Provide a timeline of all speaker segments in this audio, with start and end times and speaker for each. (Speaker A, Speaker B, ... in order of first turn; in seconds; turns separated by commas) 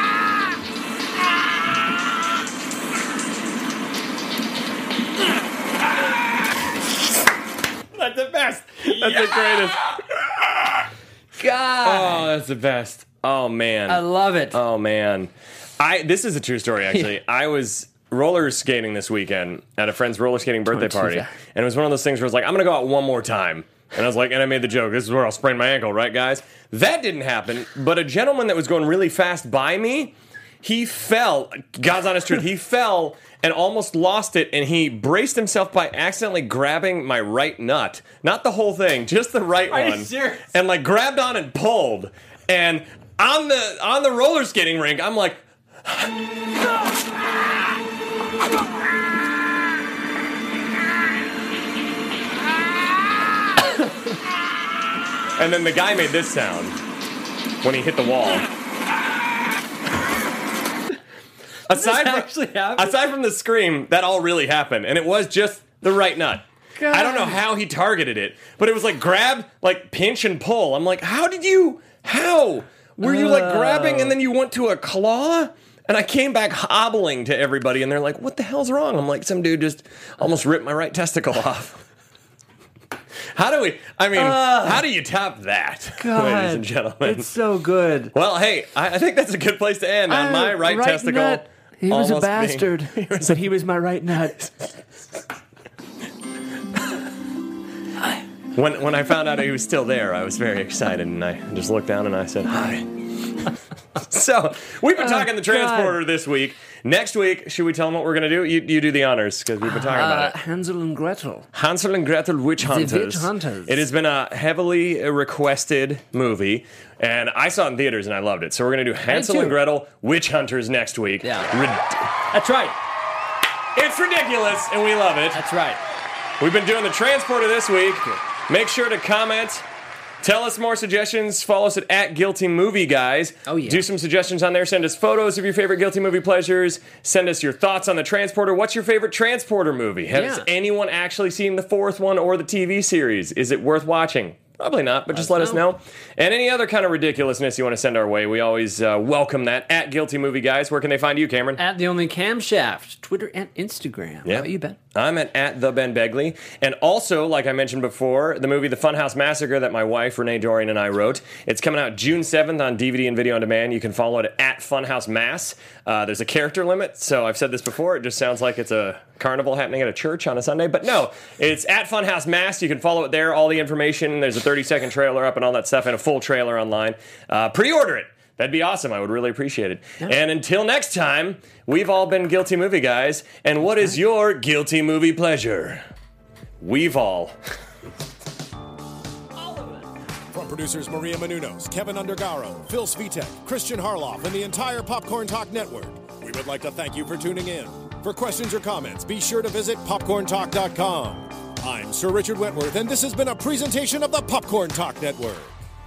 Speaker A: 7.9-10.0, Speaker B: 11.4-12.3, Speaker A: 11.8-46.1, Speaker B: 13.9-14.6, Speaker B: 20.7-21.3, Speaker B: 39.7-40.5, Speaker A: 55.4-56.8, Speaker A: 57.6-58.5, Speaker A: 61.7-81.8, Speaker B: 61.7-63.0, Speaker B: 66.8-67.4, Speaker B: 73.0-74.2, Speaker A: 83.3-87.3, Speaker B: 84.2-84.8, Speaker B: 86.0-88.1, Speaker A: 88.1-93.5, Speaker B: 90.1-94.4, Speaker A: 98.5-110.4, Speaker B: 105.0-106.0, Speaker B: 109.6-111.5, Speaker A: 111.5-122.1, Speaker B: 112.6-113.8, Speaker B: 119.1-119.6, Speaker B: 121.2-121.6, Speaker B: 122.3-122.8, Speaker A: 123.7-125.4, Speaker B: 125.3-125.8, Speaker A: 126.4-129.7, Speaker A: 130.2-151.6, Speaker B: 133.5-133.9, Speaker B: 140.1-140.4, Speaker B: 145.1-145.6, Speaker B: 151.6-154.8, Speaker A: 154.2-185.8, Speaker A: 186.6-187.3, Speaker C: 190.3-205.6